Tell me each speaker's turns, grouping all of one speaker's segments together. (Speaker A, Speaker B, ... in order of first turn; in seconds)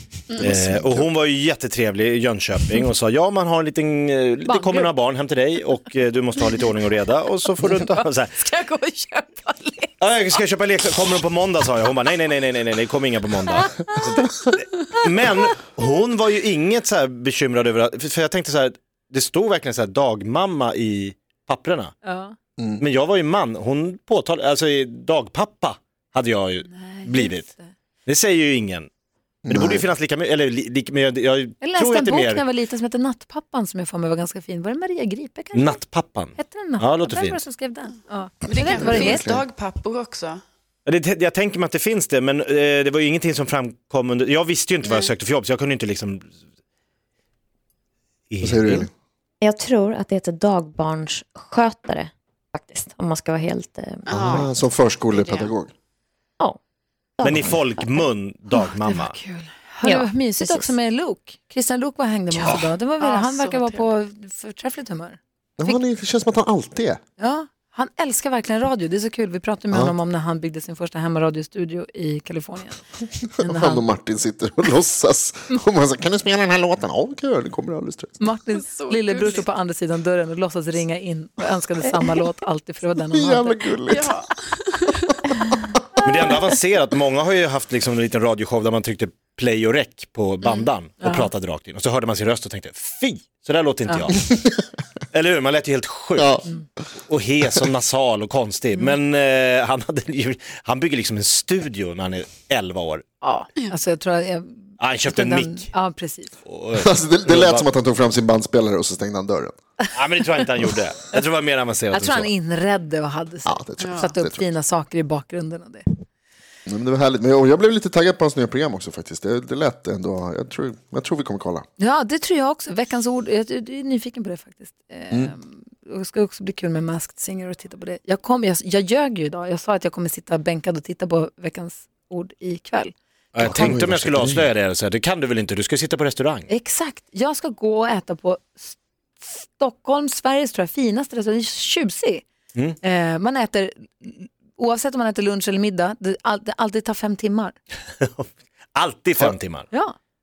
Speaker A: 0.3-8.3, 10.0-22.0, 22.8-27.5, 28.1-28.9, 29.5-32.4, 35.5-37.4, 40.9-46.3, 48.3-48.9, 57.2-59.1, 86.0-94.5, 95.1-96.5, 97.1-103.0, 104.8-105.7, 106.5-107.7, 109.9-112.3, 133.3-136.5, 148.0-149.7
Speaker B: 0.4-1.0, 22.6-22.8, 29.4-29.9, 38.6-39.4, 48.4-48.9, 54.1-55.7, 65.6-67.0, 73.4-78.2, 83.1-84.1, 96.2-96.5, 106.8-109.5, 113.5-114.5, 116.7-121.7, 133.4-134.5
Speaker C: 4.5-4.9, 7.6-10.0, 22.0-22.3, 26.7-27.7, 31.6-35.8, 36.4-39.3, 58.5-65.8, 67.2-72.8, 73.4-73.8, 78.2-83.7, 91.0-91.3, 103.2-106.3, 111.9-115.9, 121.8-132.9, 136.5-142.2, 142.8-147.6
Speaker D: 38.5-40.4, 44.8-45.1, 54.0-54.5, 55.1-55.5, 63.0-63.8, 78.5-79.4, 83.9-85.3, 90.4-90.7, 113.8-114.1
Speaker E: 49.4-54.1, 57.2-58.0, 59.8-60.7